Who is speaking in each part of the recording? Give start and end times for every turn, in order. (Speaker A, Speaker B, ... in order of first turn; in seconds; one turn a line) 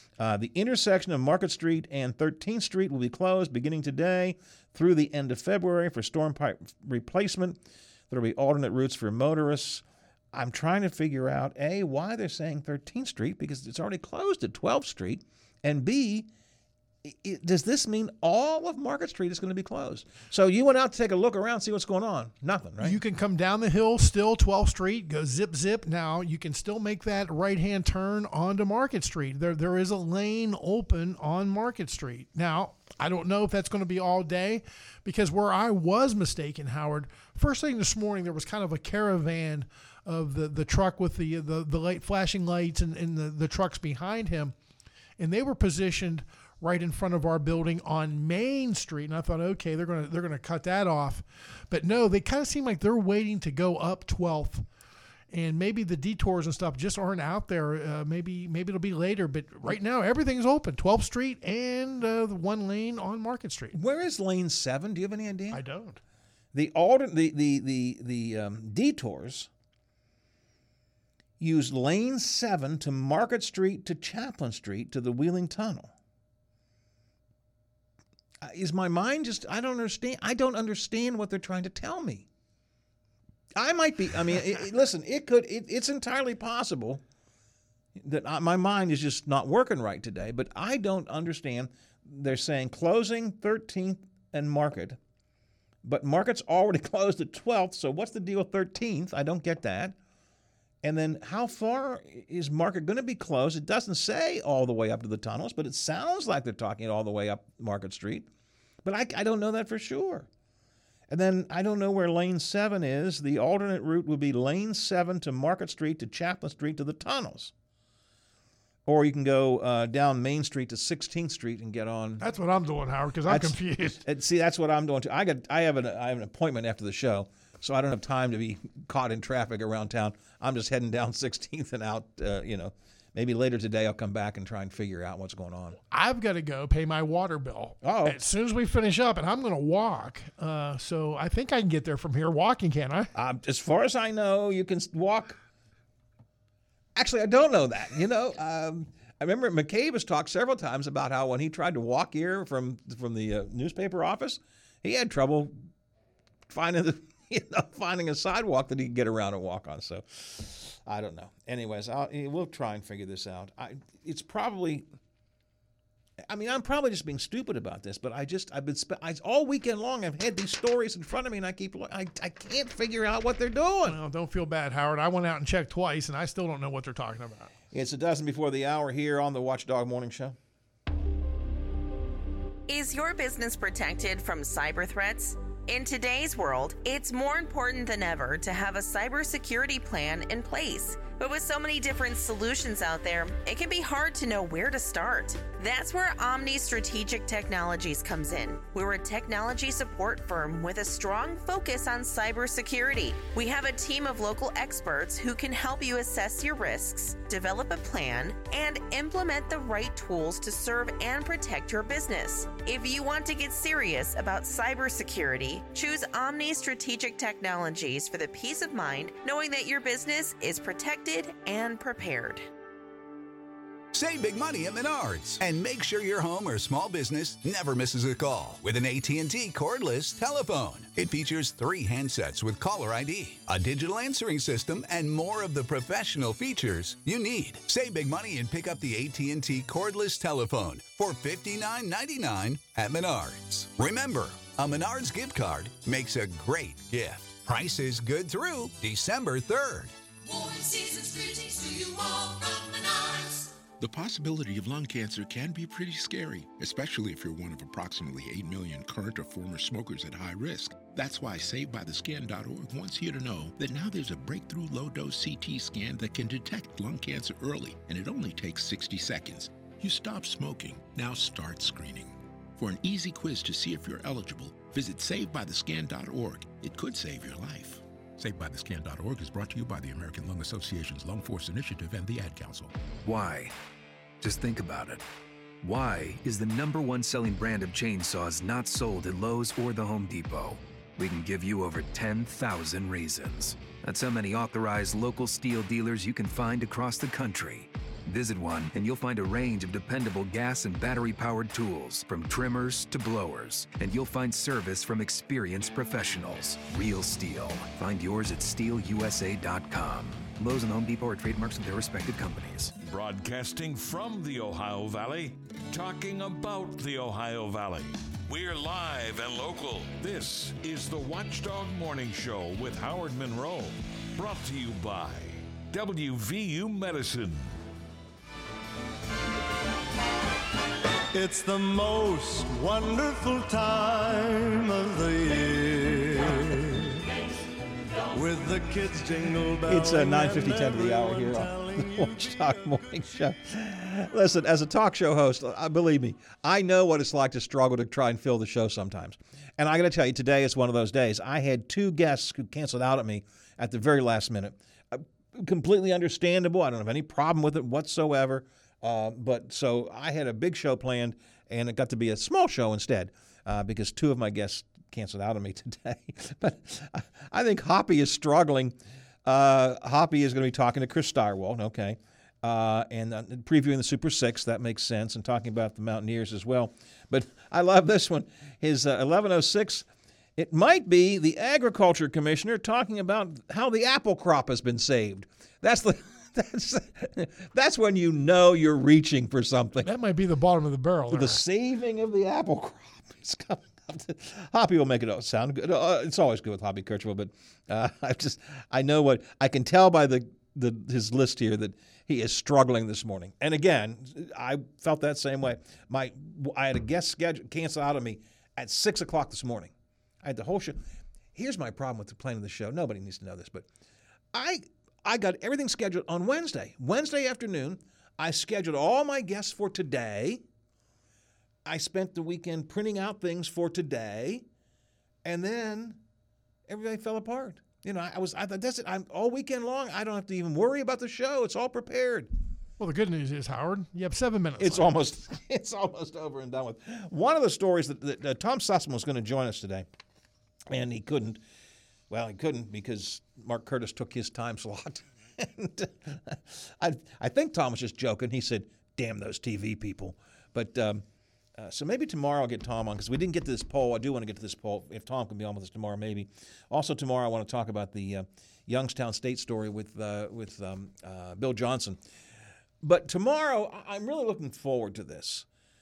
Speaker A: 0.2-16.3
Speaker A: 17.0-23.0
Speaker B: 22.8-44.5
Speaker B: 45.2-54.7
Speaker B: 55.3-63.8
Speaker A: 63.7-65.6
Speaker B: 65.5-66.0
Speaker A: 66.5-69.5
Speaker A: 71.4-75.9
Speaker A: 78.4-82.3
Speaker A: 83.6-87.0
Speaker A: 88.0-95.0
Speaker A: 95.8-100.0
Speaker A: 100.8-108.3
Speaker A: 108.8-110.3
Speaker A: 111.1-117.5
Speaker A: 118.9-122.2
Speaker B: 122.2-124.0
Speaker A: 123.3-135.8
Speaker B: 135.9-143.1
Speaker A: 137.8-138.2
Speaker A: 143.2-145.4
Speaker A: 146.9-155.6
Speaker A: 156.5-164.9
Speaker A: 166.3-174.0
Speaker B: 173.9-177.5
Speaker A: 177.7-180.4
Speaker C: 182.7-222.5
Speaker D: 223.9-249.9
Speaker C: 250.3-253.4
Speaker E: 253.8-282.7
Speaker F: 283.0-283.5
Speaker F: 284.2-285.0
Speaker F: 285.6-312.7
Speaker G: 312.8-327.6
Speaker H: 331.1-337.1
Speaker H: 338.1-342.6
Speaker A: 339.7-389.9
Speaker B: 389.8-391.4
Speaker A: 391.1-410.8
Speaker A: 411.3-413.7
Speaker A: 414.3-420.4
Speaker A: 421.6-424.5
Speaker A: 425.2-426.0
Speaker A: 426.7-432.3
Speaker B: 432.8-435.0
Speaker A: 434.6-439.9
Speaker A: 440.7-441.4
Speaker A: 442.1-451.0
Speaker A: 451.6-462.0
Speaker A: 462.8-465.5